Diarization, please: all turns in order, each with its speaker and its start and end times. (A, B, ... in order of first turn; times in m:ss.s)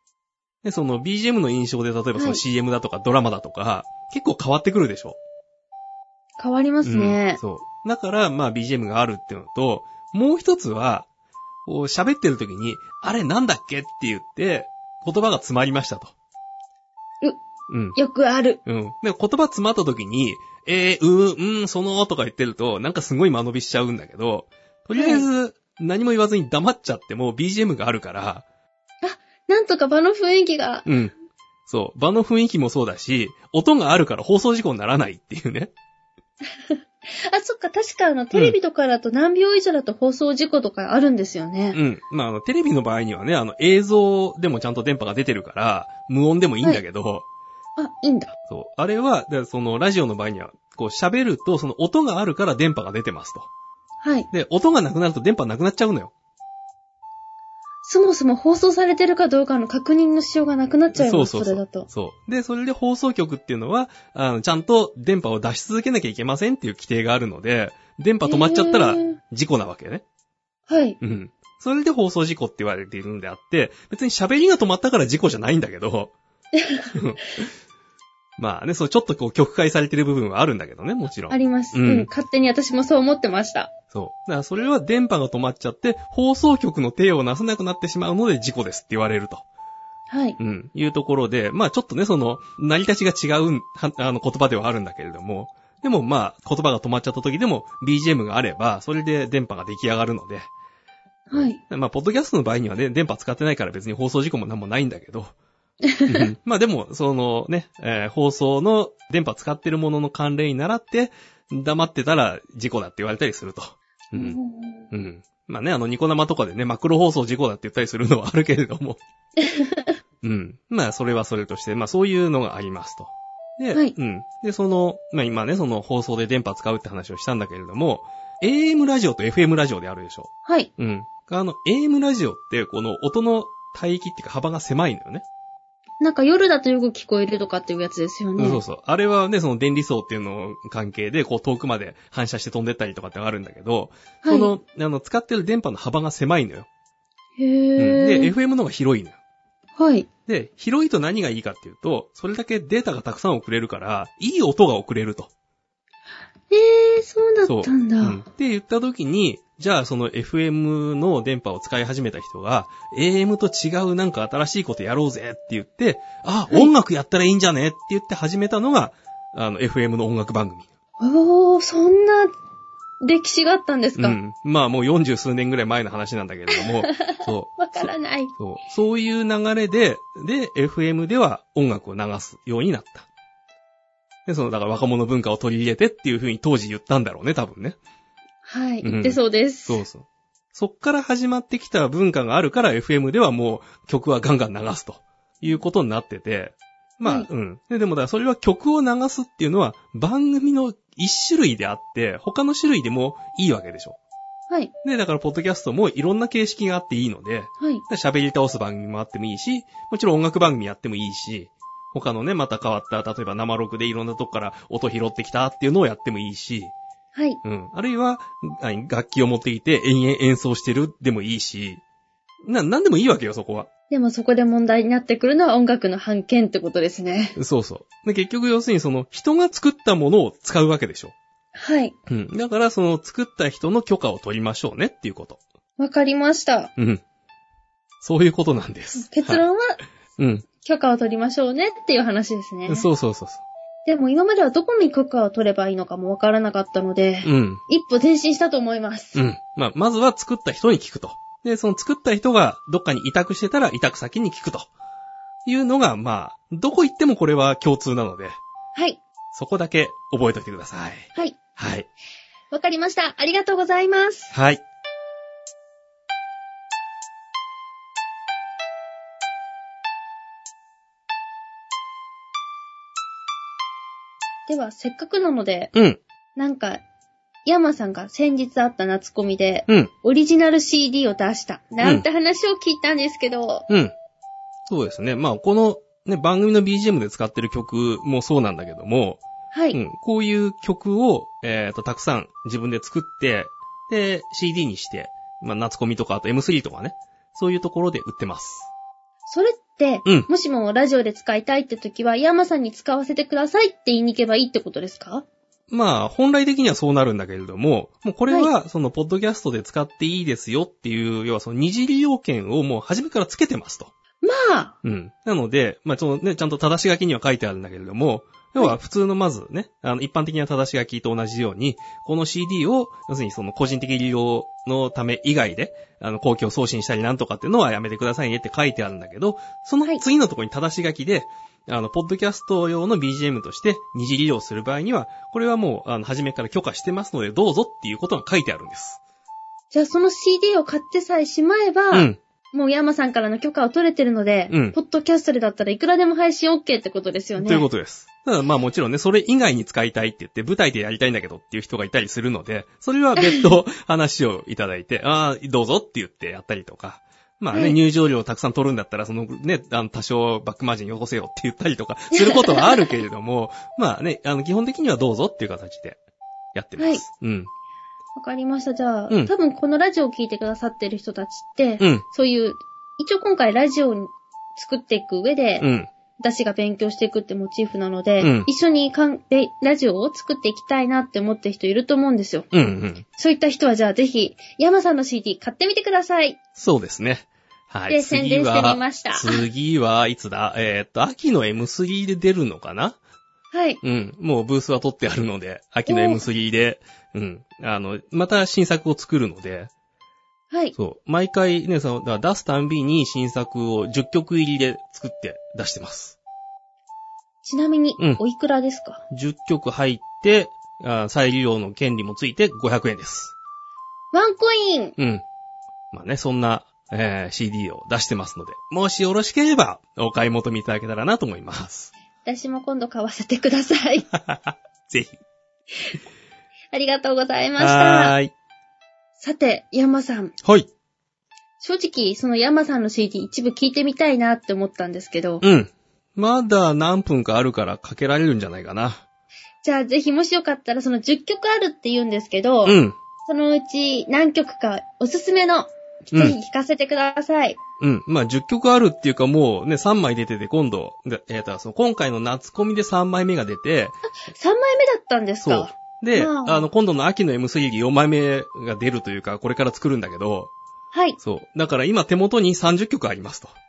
0:00.6-0:05.2 A
0:02.2-0:02.4 B
0:06.4-0:07.4 B
0:06.8-0:11.1 A
0:11.6-0:16.1 A
0:17.7-0:18.0 A
0:18.0-0:18.6 B
0:18.6-0:28.4 A
0:25.0-0:25.3 B
0:29.0-0:30.9 B
0:30.8-0:31.1 A
0:31.7-0:35.7 A
0:36.7-0:41.8 B
0:41.7-0:47.2 A
0:47.8-0:48.3 B
0:48.5-0:53.5 A
0:54.0-0:54.3 B
0:54.3-0:56.1 A
0:57.8-1:01.9 B
1:00.9-1:10.0 A
1:08.2-1:09.2 B
1:10.7-1:11.0 B
1:11.0-1:16.1 A
1:16.6-1:16.9 B
1:16.9-1:17.5 A
1:18.4-1:22.1 A
1:21.3-1:23.7 B
1:23.9-1:29.4 A
1:30.1-1:30.4 B
1:30.4-1:40.5 A
1:41.3-1:41.6 B
1:41.3-1:45.3 A
1:45.8-1:46.3 B
1:46.1-1:54.4 A
1:54.1-1:54.9 B
1:54.9-1:59.0 A
1:59.4-2:00.0 B
2:00.2-2:15.2 A
2:16.0-2:18.6 B
2:18.4-2:26.7 A
2:24.2-2:24.5 B
2:27.4-2:28.3 B
2:27.8-2:29.1 A
2:29.8-2:30.1 B
2:30.3-2:35.3 A
2:36.5-2:38.2 B
2:37.4-2:50.7 A
2:51.0-2:52.3 B
2:53.0-2:54.2 B
2:54.0-3:03.1 A
2:56.5-2:58.3 B
3:04.2-3:07.8 A
3:08.4-3:09.8 B
3:08.8-3:24.0 A
3:24.8-3:36.7 A
3:27.6-3:27.8 B
3:37.4-3:41.8 A
3:42.4-3:43.7 A
3:43.9-3:47.4 B
3:47.4-3:51.1 A
3:51.5-3:52.0 B
3:52.1-3:55.4 A
3:55.8-3:56.7 B
3:56.8-3:57.0 A
3:58.0-3:59.4 A
3:59.0-3:59.8 B
4:00.2-4:00.4 A
4:00.6-4:02.9 B
4:02.7-4:03.4 A
4:03.8-4:09.2 B
4:07.2-4:07.6 A
4:09.1-4:14.7 A
4:15.4-4:18.4 A
4:18.7-4:19.0 B
4:19.3-4:21.9 A
4:22.5-4:24.3 B
4:24.3-4:24.6 A
4:34.5-4:35.7 B
4:35.7-4:36.0 A
4:36.4-4:36.8 B
4:37.4-4:43.7 B
4:43.7-4:43.9 A
4:44.7-4:49.2 A
4:49.5-4:49.8 B
4:49.7-4:58.7 A
4:59.3-5:05.2 B
5:05.7-5:13.9 A
5:14.2-5:14.7 B
5:14.8-5:39.0 A
5:39.7-5:47.6 B
5:41.9-5:42.2 A
5:44.5-5:44.8 A
5:47.4-6:06.0 A
5:53.2-5:53.5 B
5:57.5-5:57.8 B
6:02.1-6:03.0 B
6:06.5-6:07.5 A
6:06.8-6:07.0 B
6:08.2-6:15.7 B
6:11.8-6:12.0 A
6:15.6-6:15.9 A
6:16.2-6:22.5 B
6:18.2-6:18.5 A
6:22.5-6:23.0 A
6:23.2-6:26.4 B
6:26.6-6:33.0 A
6:27.9-6:29.4 B
6:33.5-6:33.8 B
6:33.8-6:39.7 A
6:35.8-6:36.2 B
6:40.8-6:46.2 A
6:47.4-6:49.0 B
6:49.1-6:53.3 A
6:54.1-6:55.0 B
6:55.0-6:55.2 A
6:55.9-7:01.9 A
7:02.2-7:04.1 B
7:04.1-7:05.2 A
7:06.7-7:08.2 B
7:07.6-7:08.3 A
7:09.2-7:10.3 B
7:10.4-7:10.7 A
7:11.6-7:15.4 B
7:15.4-7:19.0 A
7:19.6-7:27.6 B
7:22.6-7:23.0 A
7:27.8-7:34.0 A
7:34.3-7:36.7 B
7:35.4-7:40.5 A
7:40.9-7:41.2 B
7:41.2-7:43.5 A